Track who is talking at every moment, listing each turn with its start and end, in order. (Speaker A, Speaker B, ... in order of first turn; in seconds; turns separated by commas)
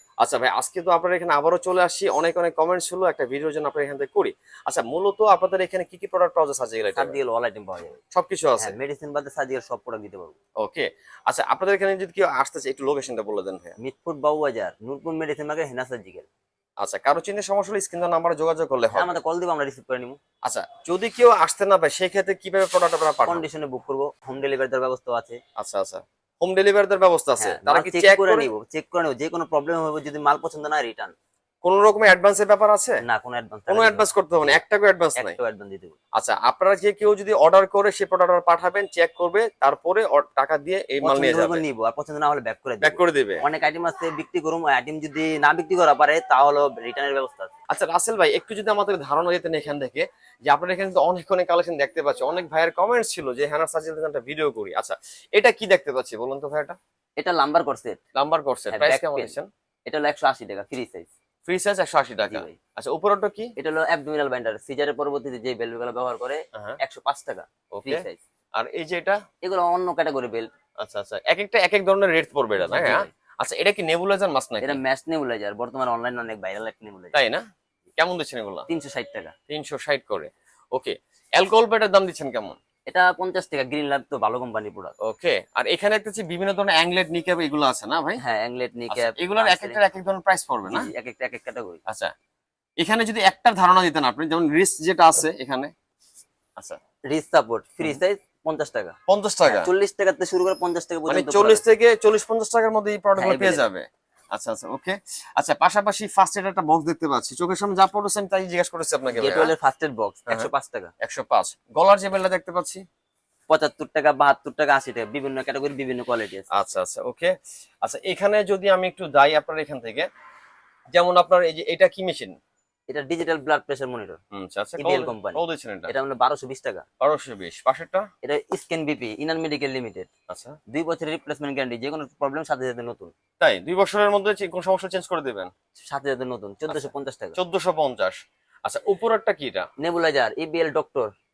Speaker A: 0.2-7.2, Speaker B: 7.0-8.0, Speaker A: 8.1-8.8, Speaker B: 8.6-10.4, Speaker A: 10.6-13.8, Speaker B: 13.8-16.3, Speaker A: 16.8-19.1, Speaker B: 18.9-20.2, Speaker A: 20.4-23.4, Speaker B: 23.3-25.4, Speaker A: 25.6-28.5, Speaker B: 27.4-31.1, Speaker A: 31.6-33.0, Speaker B: 33.0-34.6, Speaker A: 33.7-35.4, Speaker B: 35.2-36.0, Speaker A: 36.1-41.6, Speaker B: 41.0-47.5, Speaker A: 42.8-43.4, Speaker A: 47.7-56.8, Speaker B: 57.2-58.0, Speaker A: 58.1-59.5, Speaker B: 58.7-59.4, Speaker B: 59.9-61.1, Speaker A: 61.5-63.5, Speaker B: 62.2-62.6, Speaker B: 63.6-68.2, Speaker A: 67.7-69.2, Speaker B: 69.4-70.5, Speaker A: 70.8-74.8, Speaker B: 72.6-73.1, Speaker B: 74.6-77.2, Speaker A: 77.1-77.4, Speaker A: 78.0-78.7, Speaker B: 78.7-79.3, Speaker A: 79.5-82.6, Speaker B: 82.9-84.9, Speaker A: 85.0-88.2, Speaker B: 88.2-89.8, Speaker A: 88.9-90.9, Speaker B: 90.7-91.8, Speaker A: 91.9-92.1, Speaker A: 92.8-95.7, Speaker B: 97.1-99.0, Speaker A: 99.1-99.7, Speaker B: 99.5-101.6, Speaker A: 101.1-109.5, Speaker B: 103.2-103.6, Speaker B: 109.2-110.9, Speaker A: 111.0-112.8, Speaker B: 113.5-116.5, Speaker A: 116.5-117.3, Speaker A: 117.8-120.1, Speaker A: 120.9-122.3, Speaker B: 122.9-124.2, Speaker A: 124.3-125.9, Speaker B: 124.8-126.8, Speaker A: 127.0-128.1, Speaker B: 128.2-130.1, Speaker A: 130.3-130.6, Speaker B: 130.7-133.1, Speaker A: 133.4-135.5, Speaker B: 135.9-137.4, Speaker A: 136.7-139.7, Speaker B: 139.8-141.1